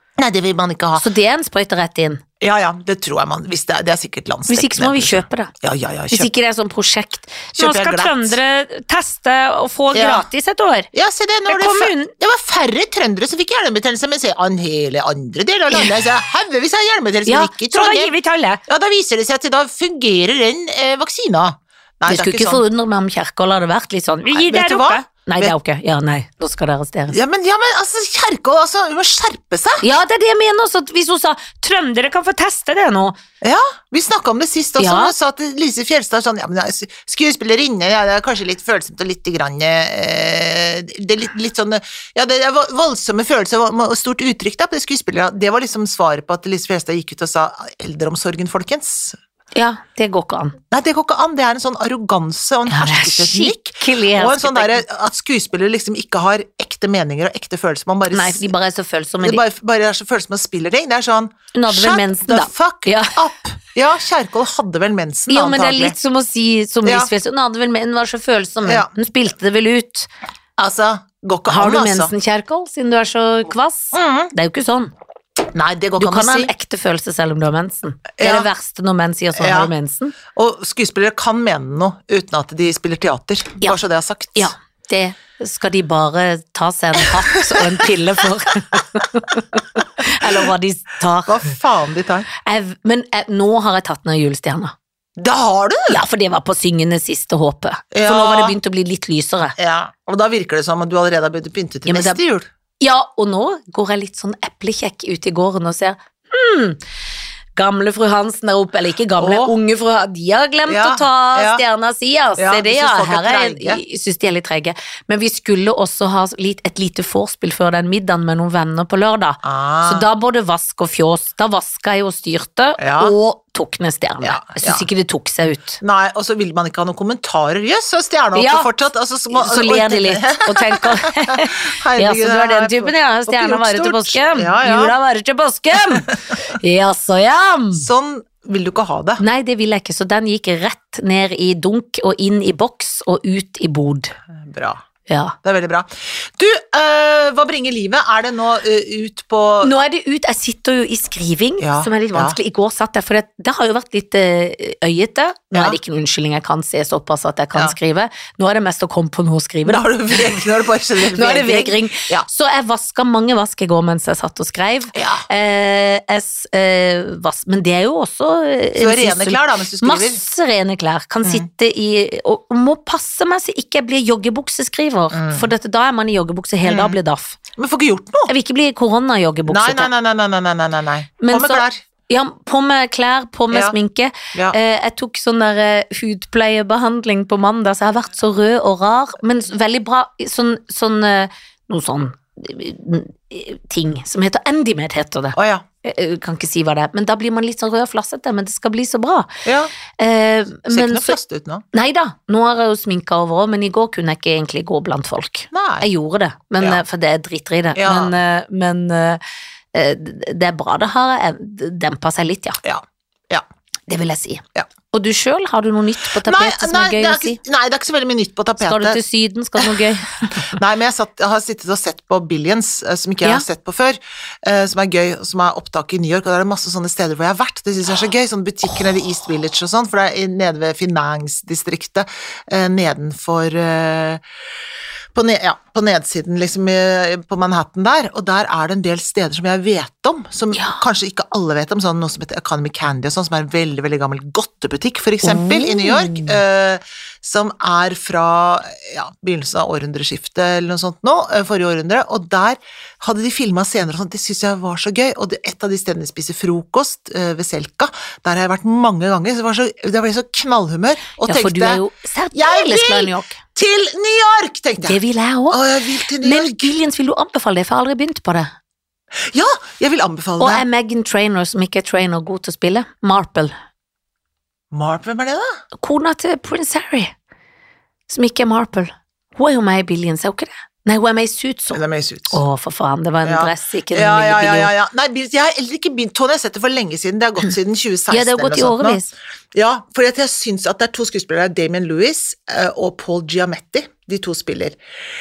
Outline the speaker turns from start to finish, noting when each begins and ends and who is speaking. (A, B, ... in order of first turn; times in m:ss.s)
0:00.2-0:01.0 A
0:01.0-0:02.2 B
0:02.4-0:06.3 A
0:04.5-0:05.5 B
0:06.1-0:10.9 B
0:07.5-0:08.4 A
0:09.9-0:10.3 A
0:10.9-0:18.1 A
0:11.5-0:12.1 B
0:17.2-0:18.6 B
0:18.7-0:22.6 A
0:22.0-0:27.2 B
0:24.3-0:25.5 A
0:27.1-0:29.8 A
0:29.8-0:33.2 B
0:33.4-0:49.2 A
0:34.8-0:35.1 B
0:49.5-0:50.6 B
0:50.7-0:58.5 A
0:52.7-0:54.8 B
0:58.1-0:59.4 B
0:59.2-1:06.0 A
1:01.5-1:03.2 B
1:05.3-1:10.1 B
1:06.8-1:07.1 A
1:08.6-1:08.9 A
1:10.6-1:12.1 A
1:11.5-1:14.9 B
1:13.9-1:14.3 A
1:15.5-1:16.5 A
1:16.0-1:20.1 B
1:18.2-1:18.5 A
1:19.4-1:19.7 A
1:20.3-1:24.5 A
1:24.4-1:31.5 B
1:27.2-1:27.8 A
1:30.2-1:30.5 A
1:31.2-1:32.3 A
1:32.4-1:34.7 B
1:35.2-1:36.0 A
1:35.9-1:39.6 B
1:37.9-1:38.6 A
1:39.6-1:42.5 A
1:41.9-1:42.2 B
1:42.8-1:46.8 B
1:47.6-2:05.8 B
1:49.2-1:49.5 A
1:50.7-1:51.6 A
1:52.4-1:53.8 A
1:59.4-2:00.1 A
2:02.8-2:03.1 A
2:04.2-2:04.9 A
2:05.8-2:14.9 A
2:08.3-2:08.7 B
2:09.3-2:17.8 B
2:17.7-2:19.2 A
2:19.2-2:24.1 B
2:24.3-2:24.8 A
2:25.1-2:25.3 B
2:25.4-2:29.7 A
2:29.6-2:39.8 B
2:31.6-2:32.4 A
2:35.5-2:35.8 A
2:39.6-2:42.2 A
2:41.1-2:57.4 B
2:44.9-2:45.2 A
2:48.8-2:50.2 A
2:55.1-2:55.5 A
2:56.6-2:57.0 A
2:57.6-2:58.3 A
2:58.3-2:59.9 B
2:59.5-3:01.8 A
3:01.2-3:19.4 B
3:15.3-3:15.6 A
3:19.4-3:19.7 A
3:20.0-3:21.2 B
3:20.6-3:21.6 A
3:21.7-3:29.2 B
3:25.5-3:25.9 A
3:27.8-3:28.1 A
3:29.7-3:32.6 B
3:32.6-3:33.4 A
3:33.9-3:37.4 B
3:36.2-3:39.0 A
3:38.6-3:40.5 B
3:40.4-3:54.2 A
3:55.1-4:21.8 A
4:00.5-4:00.8 B
4:05.2-4:06.4 B
4:21.3-4:23.4 B
4:22.3-4:26.7 A
4:24.8-4:25.6 B
4:26.2-4:28.5 B
4:29.3-4:30.6 A
4:30.4-4:33.5 B
4:34.7-4:35.6 A
4:35.8-4:37.1 B
4:38.1-4:44.7 B
4:41.7-4:42.4 A
4:43.2-4:49.0 A
4:48.1-4:49.1 B
4:49.5-4:54.8 A